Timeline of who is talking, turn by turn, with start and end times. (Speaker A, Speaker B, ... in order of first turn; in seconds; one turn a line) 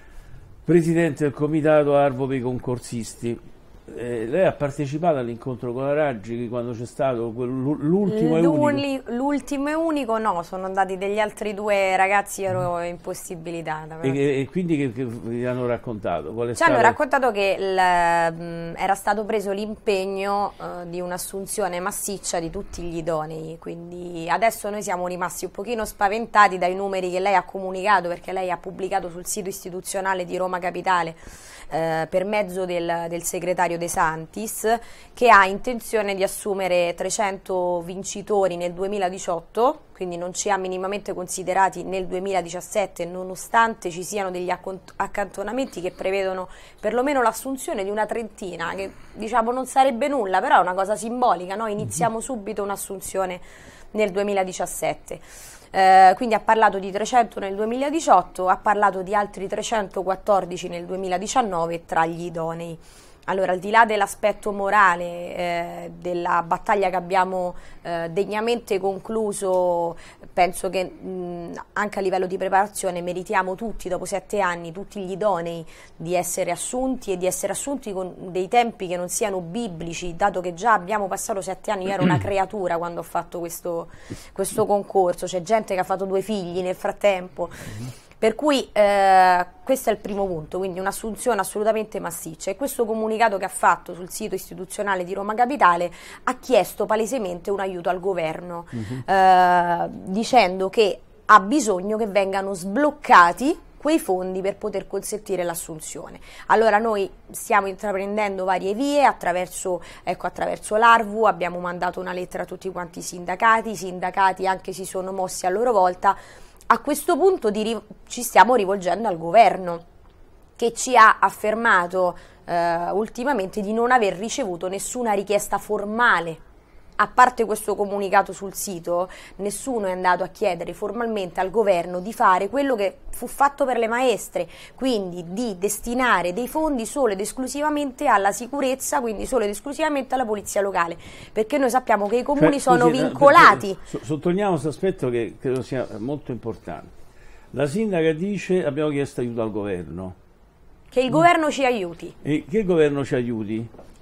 Speaker A: 0.7-8.8
Speaker B: 8.1-14.2
Speaker A: 14.0-16.9
Speaker B: 16.6-119.8
Speaker A: 98.8-99.0
Speaker B: 120.6-126.4
Speaker B: 127.0-143.8
Speaker A: 142.3-146.9
Speaker A: 147.5-150.2
Speaker B: 150.9-152.1
Speaker A: 152.2-153.7